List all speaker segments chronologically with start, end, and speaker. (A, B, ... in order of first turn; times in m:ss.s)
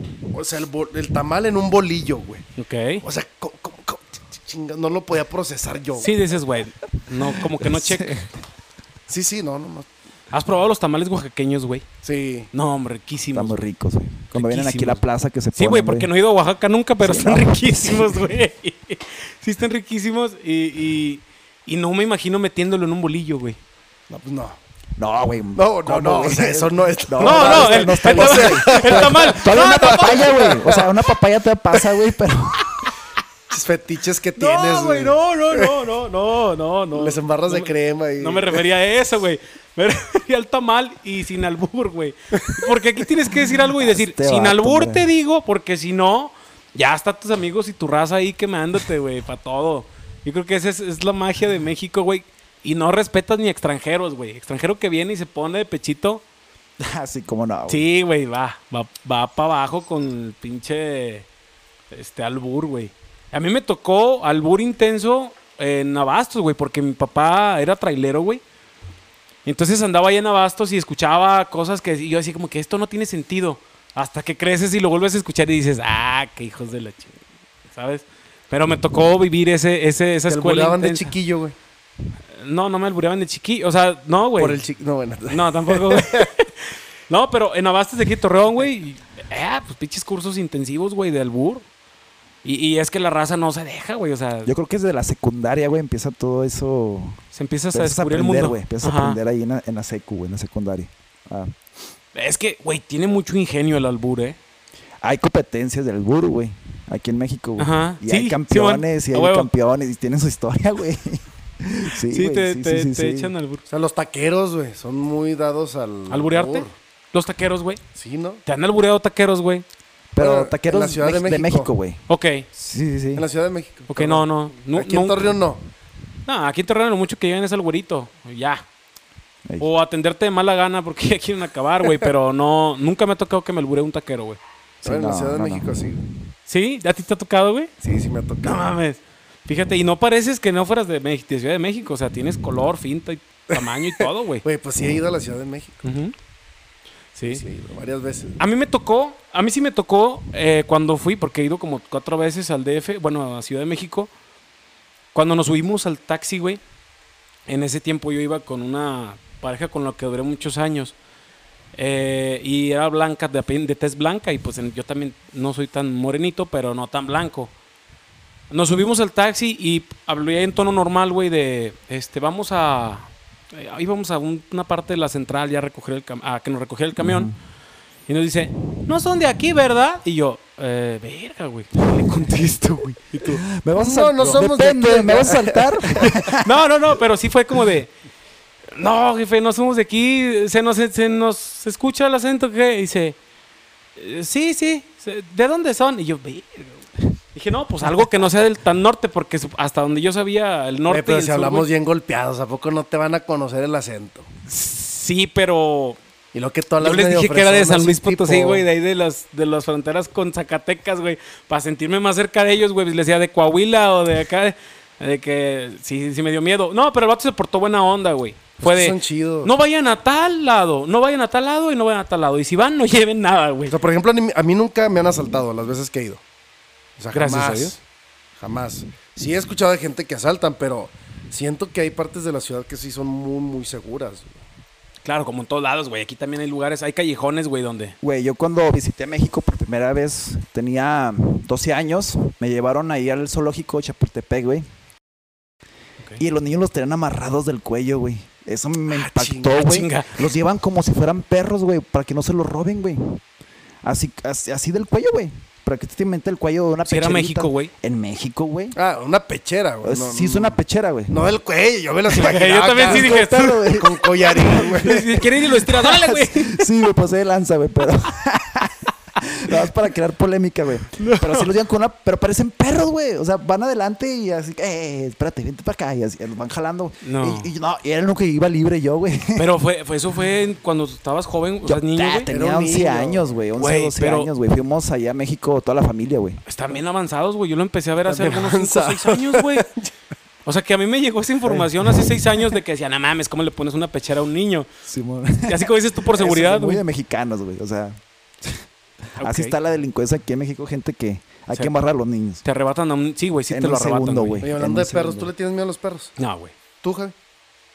0:00.3-0:02.4 A
0:02.6-0:03.0 B
0:03.0-0:06.1 A
0:06.0-0:08.3 B
0:07.6-0:08.3 C
0:09.1-0:09.9 A
0:10.3-0:11.8 B
0:12.0-0:12.5 A
0:12.5-0:13.6 B
0:13.3-0:16.1 C
0:14.3-0:15.0 B
0:15.5-0:23.6 B
0:17.0-0:18.3 C
0:24.1-0:24.6 A
0:25.0-0:32.9 C
0:25.6-0:30.9 A
0:27.2-0:30.3 B
0:33.5-0:35.8 A
0:34.4-0:56.2 B
0:36.9-0:38.6 A
0:43.7-0:45.0 C
0:56.8-0:57.8 C
0:57.7-1:01.3 B
1:01.9-1:08.4 B
1:09.4-1:17.2 B
1:17.7-1:21.1 B
1:20.3-1:21.5 A
1:22.3-1:24.6 B
1:24.4-1:26.3 A
1:25.3-1:31.6 B
1:32.4-1:34.5 B
1:34.4-1:37.2 C
1:37.3-1:39.2 B
1:37.7-1:41.6 C
1:42.1-1:44.4 B
1:45.0-1:53.3 C
1:47.6-1:49.5 B
1:52.1-1:53.6 B
1:53.7-1:56.7 A
1:56.1-1:57.8 B
1:57.9-1:58.4 A
1:58.4-1:59.6 B
2:00.1-2:02.0 C
2:00.2-2:01.7 A
2:02.1-2:02.5 B
2:02.5-2:03.2 C
2:03.1-2:05.6 A
2:03.9-2:05.3 B
2:06.2-2:08.6 B
2:09.6-2:14.4 B
2:14.8-2:15.8 C
2:14.8-2:16.0 A
2:16.5-2:17.7 B
2:17.8-2:18.7 A
2:18.4-2:24.4 B
2:23.5-2:25.8 A
2:25.8-2:26.1 B
2:27.1-2:27.4 B
2:27.3-2:28.4 A
2:28.4-2:34.1 B
2:35.1-2:36.6 B
2:37.5-2:41.0 B
2:41.7-2:47.5 B
2:48.5-2:57.3 B
2:57.0-2:57.3 C
2:58.1-3:03.4 B
3:02.0-3:02.5 C
3:03.2-3:06.5 C
3:03.8-3:06.2 A
3:06.4-3:07.9 B
3:08.7-3:13.2 B
3:14.0-3:21.7 B
3:20.9-3:24.3 A
3:24.5-3:26.0 B
3:26.3-3:28.6 A
3:26.8-3:43.8 B
3:38.6-3:39.5 A
3:43.7-3:46.2 A
3:47.0-3:47.8 A
3:47.1-3:47.8 B
3:48.4-3:54.4 A
3:55.0-3:58.0 B
3:58.0-4:04.6 C
4:06.2-4:13.2 C
4:08.9-4:09.5 A
4:09.5-4:10.2 B
4:13.8-4:18.8 C
4:16.8-4:17.7 B
4:18.7-4:20.6 A
4:19.8-4:21.2 C
4:21.1-4:23.2 A
4:22.1-4:23.8 B
4:22.8-4:39.5 C
4:23.7-4:25.3 A
4:24.4-4:26.6 B
4:31.0-4:31.5 B
4:37.0-4:37.5 B
4:39.4-4:42.3 B
4:41.6-4:46.4 C
4:42.3-4:43.3 A
4:43.6-4:44.3 B
4:46.4-4:49.7 B
4:48.1-4:49.9 A
4:50.4-4:54.7 B
4:51.4-4:52.1 C
4:54.8-4:58.6 C
4:55.4-4:56.8 B
4:59.2-4:59.5 B
4:59.2-5:02.4 C
5:02.4-5:04.4 B
5:03.5-5:05.3 C
5:04.4-5:06.2 A
5:06.2-5:06.5 B
5:06.8-5:07.1 A